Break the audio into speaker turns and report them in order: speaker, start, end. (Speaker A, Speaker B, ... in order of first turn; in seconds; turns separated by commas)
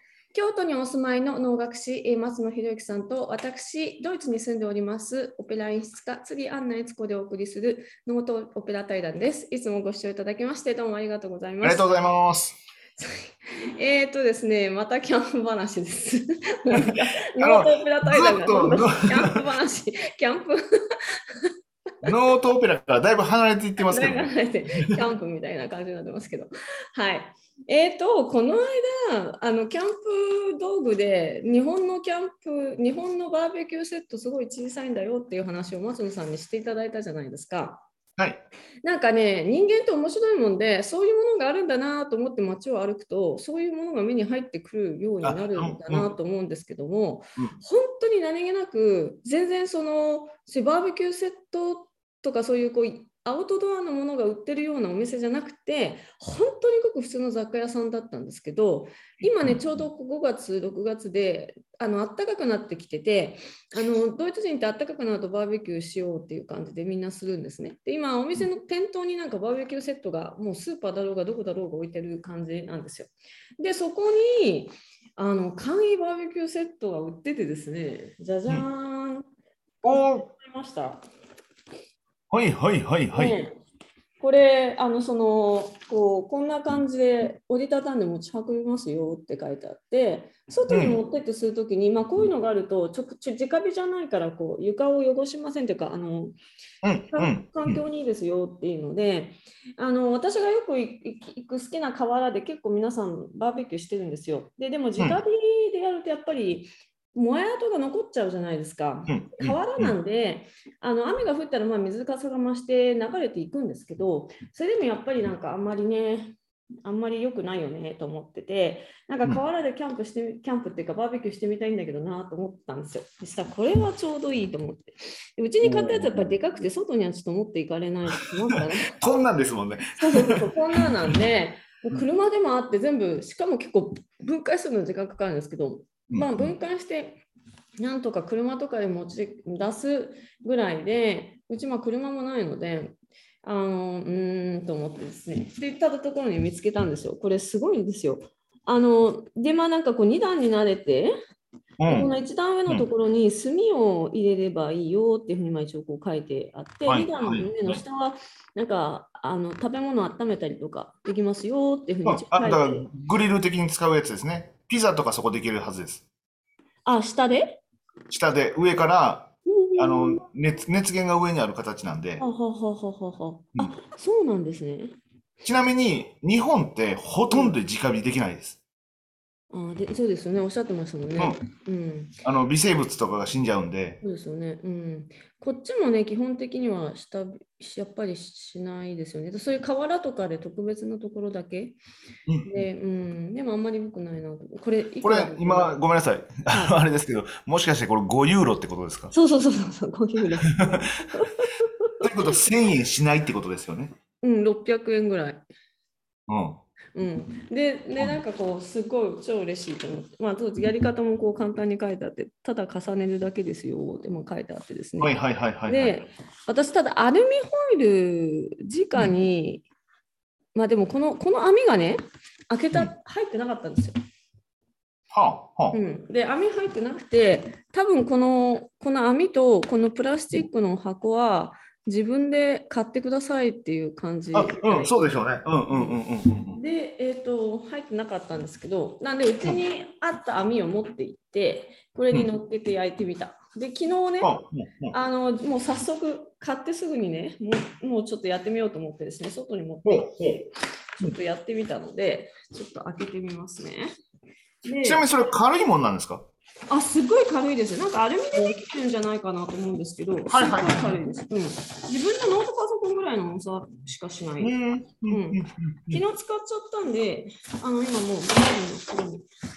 Speaker A: 0.3-11.8, Speaker B: 11.6-12.6, Speaker A: 13.0-21.5, Speaker B: 17.4-19.4, Speaker B: 22.0-24.3, Speaker A: 23.8-37.8, Speaker B: 38.2-38.4, Speaker A: 38.8-79.2, Speaker B: 45.2-46.1, Speaker B: 59.2-59.6, Speaker B: 79.8-80.2, Speaker A: 79.8-81.0, Speaker B: 82.3-83.4, Speaker A: 83.1-83.6, Speaker A: 84.2-96.3, Speaker B: 90.7-91.0, Speaker B: 96.8-97.8, Speaker A: 97.1-128.9, Speaker B: 109.1-109.9, Speaker B: 125.6-126.3, Speaker B: 129.0-131.2, Speaker A: 130.0-137.2, Speaker B: 136.1-136.5, Speaker A: 137.8-151.1, Speaker B: 151.8-152.1, Speaker A: 151.9-162.9, Speaker B: 156.8-157.8, Speaker B: 162.0-166.0, Speaker A: 166.8-167.6, Speaker B: 168.1-172.2, Speaker A: 169.4-170.2, Speaker A: 172.2-174.9, Speaker B: 175.4-178.6, Speaker A: 177.3-177.6, Speaker A: 179.5-182.2, Speaker B: 182.2-184.0, Speaker A: 184.0-191.8, Speaker B: 192.3-192.6, Speaker A: 192.4-195.8, Speaker B: 195.0-199.1, Speaker A: 196.5-196.8, Speaker A: 199.1-201.9, Speaker B: 202.0-203.9, Speaker A: 204.2-205.4, Speaker B: 206.3-206.6, Speaker A: 206.9-219.6, Speaker B: 215.0-216.0, Speaker A: 220.5-223.9, Speaker B: 225.1-225.8, Speaker A: 225.7-236.0, Speaker B: 234.3-236.6, Speaker A: 236.5-244.3, Speaker B: 244.2-244.9, Speaker A: 244.9-250.5, Speaker B: 249.8-250.4, Speaker A: 251.0-253.9, Speaker A: 254.6-255.1, Speaker B: 254.8-256.2, Speaker A: 256.7-264.5, Speaker B: 260.3-261.0, Speaker B: 264.4-266.0, Speaker A: 265.1-269.2